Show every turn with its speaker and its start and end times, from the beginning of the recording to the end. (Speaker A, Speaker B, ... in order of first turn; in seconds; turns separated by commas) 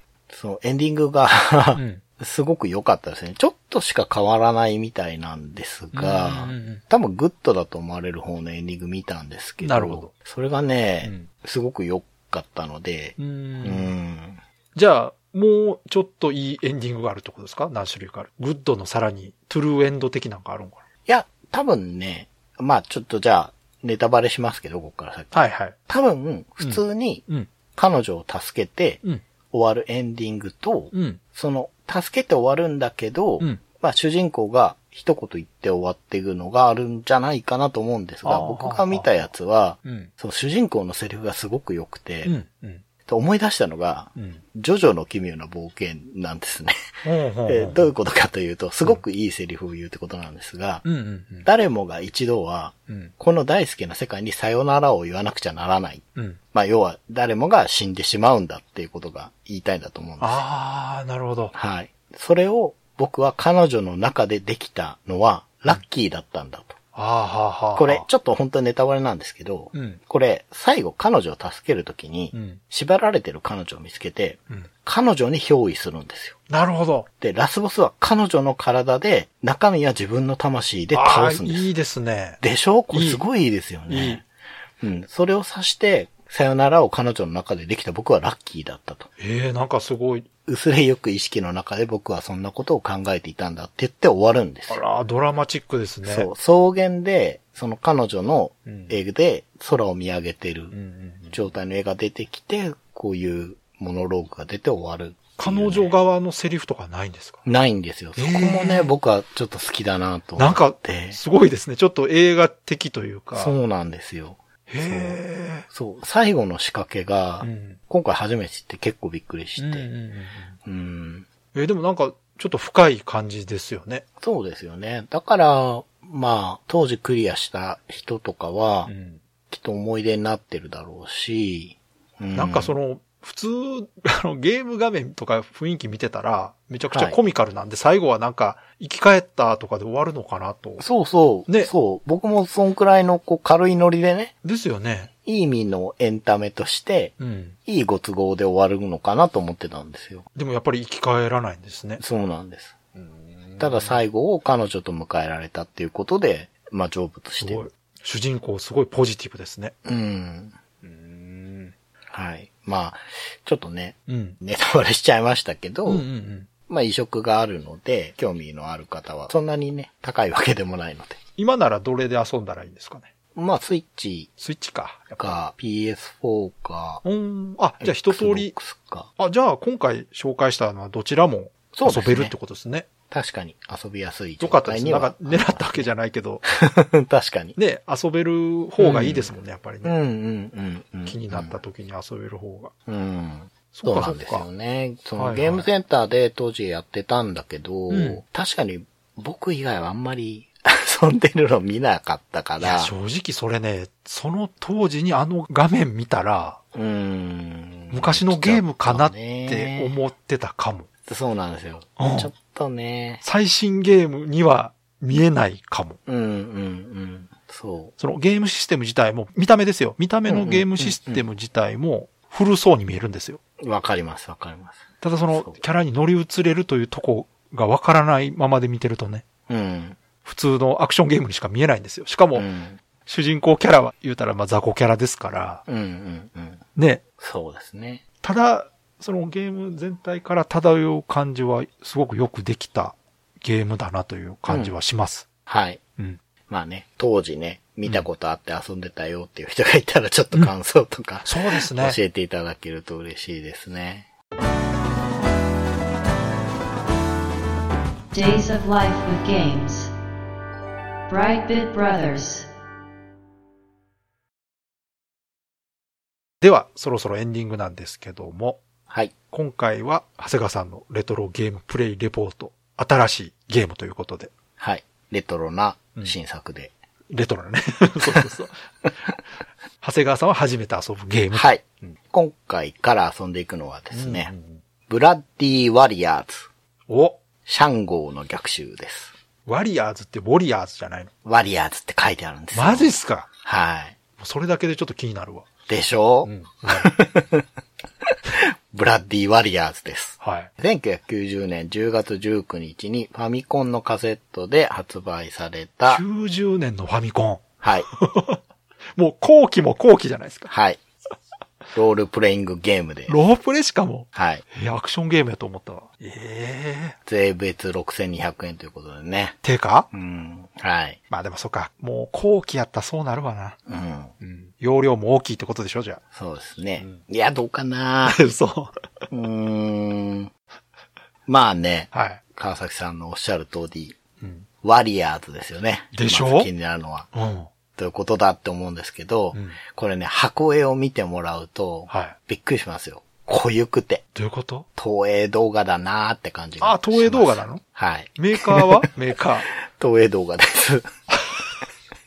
Speaker A: 0.3-14.4, Speaker B: 1.7-2.0, Speaker B: 5.9-6.8, Speaker B: 9.6-10.1, Speaker B: 11.0-11.3, Speaker B: 13.2-13.9, Speaker B: 14.7-20.8, Speaker A: 21.1-42.3, Speaker B: 25.3-25.8, Speaker B: 26.6-27.5, Speaker B: 30.9-31.2, Speaker B: 38.2-39.2, Speaker B: 39.8-40.1, Speaker B: 42.2-42.8, Speaker A: 43.0-50.8, Speaker B: 44.1-44.4, Speaker B: 47.0-47.9, Speaker B: 50.8-51.5, Speaker A: 51.4-60.4, Speaker B: 52.9-53.1, Speaker B: 60.2-61.5, Speaker A: 61.5-66.8, Speaker B: 66.9-68.0, Speaker A: 67.8-76.4, Speaker B: 69.7-70.0, Speaker B: 72.3-72.6, Speaker B: 76.5-77.1, Speaker A: 77.2-81.7, Speaker B: 80.9-82.4, Speaker A: 82.4-84.2, Speaker B: 82.9-83.2, Speaker B: 83.9-84.2, Speaker A: 84.8-89.1, Speaker B: 89.2-90.2, Speaker A: 90.5-94.8, Speaker B: 94.7-96.3, Speaker A: 96.0-100.7, Speaker B: 98.7-99.0, Speaker B: 100.7-101.5, Speaker A: 101.3-105.9, Speaker B: 105.4-107.4, Speaker A: 107.4-111.2, Speaker B: 108.2-108.9, Speaker B: 110.4-113.5, Speaker A: 113.3-119.9, Speaker B: 114.7-115.7, Speaker B: 117.4-117.8, Speaker B: 119.6-120.5, Speaker A: 120.6-121.2, Speaker B: 121.5-124.0, Speaker A: 124.2-128.9, Speaker B: 128.9-129.2, Speaker A: 129.5-132.7, Speaker B: 132.3-140.8, Speaker A: 136.9-137.2, Speaker A: 140.8-144.3, Speaker B: 144.4-145.1, Speaker A: 145.2-150.2, Speaker B: 147.2-147.6, Speaker B: 150.3-152.0, Speaker A: 152.0-152.8, Speaker B: 152.9-154.0, Speaker A: 153.6-157.7, Speaker B: 157.4-159.7, Speaker A: 159.8-160.5, Speaker B: 160.8-161.7, Speaker A: 162.1-166.0, Speaker B: 164.1-164.4, Speaker B: 165.8-166.5, Speaker A: 166.7-171.2, Speaker B: 171.4-173.1, Speaker A: 173.3-174.3, Speaker B: 174.4-175.4, Speaker A: 175.2-177.0, Speaker B: 177.0-178.5, Speaker A: 177.8-179.1, Speaker B: 179.2-182.9, Speaker A: 181.7-182.3, Speaker A: 183.1-185.9, Speaker B: 184.4-186.4, Speaker A: 186.4-187.6, Speaker B: 187.6-189.9, Speaker A: 188.8-191.6, Speaker B: 191.1-192.7, Speaker A: 192.9-202.9, Speaker B: 193.7-194.4, Speaker B: 195.2-195.7, Speaker B: 197.9-198.2, Speaker B: 202.6-206.6, Speaker A: 206.7-209.9, Speaker B: 207.9-210.9, Speaker A: 211.1-213.2, Speaker B: 212.0-212.3, Speaker B: 213.2-216.0, Speaker A: 216.1-217.9, Speaker B: 218.0-223.4, Speaker A: 220.3-221.2, Speaker A: 223.6-225.6, Speaker B: 225.0-229.2, Speaker A: 229.5-230.0, Speaker B: 230.2-232.4, Speaker A: 232.3-232.8, Speaker B: 233.1-235.6, Speaker A: 235.7-236.6, Speaker B: 236.8-237.0, Speaker A: 237.2-238.0, Speaker B: 238.2-245.3, Speaker A: 244.5-244.7, Speaker A: 245.5-245.8, Speaker A: 246.5-254.1, Speaker B: 251.2-252.0, Speaker C: 258.1-259.9, Speaker C: 261.1-262.5, Speaker B: 266.4-268.6, Speaker B: 269.3-274.3, Speaker A: 274.6-276.7, Speaker B: 277.1-278.5, Speaker B: 279.8-281.9, Speaker A: 281.3-284.3, Speaker B: 283.9-284.6, Speaker A: 284.9-286.5, Speaker B: 286.9-287.2, Speaker A: 287.4-289.1, Speaker B: 289.4-291.1, Speaker A: 291.2-294.0, Speaker B: 292.5-293.3, Speaker B: 294.2-295.5, Speaker A: 295.7-297.4, Speaker B: 296.2-296.9, Speaker A: 298.3-306.0, Speaker B: 300.2-300.5, Speaker B: 305.9-308.4, Speaker A: 307.6-307.9, Speaker B: 308.9-310.5, Speaker A: 310.5-310.8, Speaker A: 311.7-313.2, Speaker B: 313.1-317.0, Speaker A: 314.1-314.4, Speaker A: 317.1-319.4, Speaker B: 319.4-319.9, Speaker A: 319.9-321.0, Speaker B: 321.1-323.6, Speaker A: 323.7-324.1, Speaker B: 324.2-326.0, Speaker A: 326.1-328.2, Speaker B: 328.1-328.8, Speaker A: 329.1-330.3, Speaker A: 331.3-334.0, Speaker B: 331.9-332.2, Speaker B: 334.2-334.4, Speaker A: 334.6-337.1, Speaker B: 335.9-336.5, Speaker B: 337.1-337.5, Speaker A: 337.8-344.0, Speaker B: 341.9-342.1, Speaker B: 344.1-344.7, Speaker A: 344.8-348.9, Speaker B: 346.6-347.6, Speaker B: 348.1-349.5, Speaker A: 349.5-350.9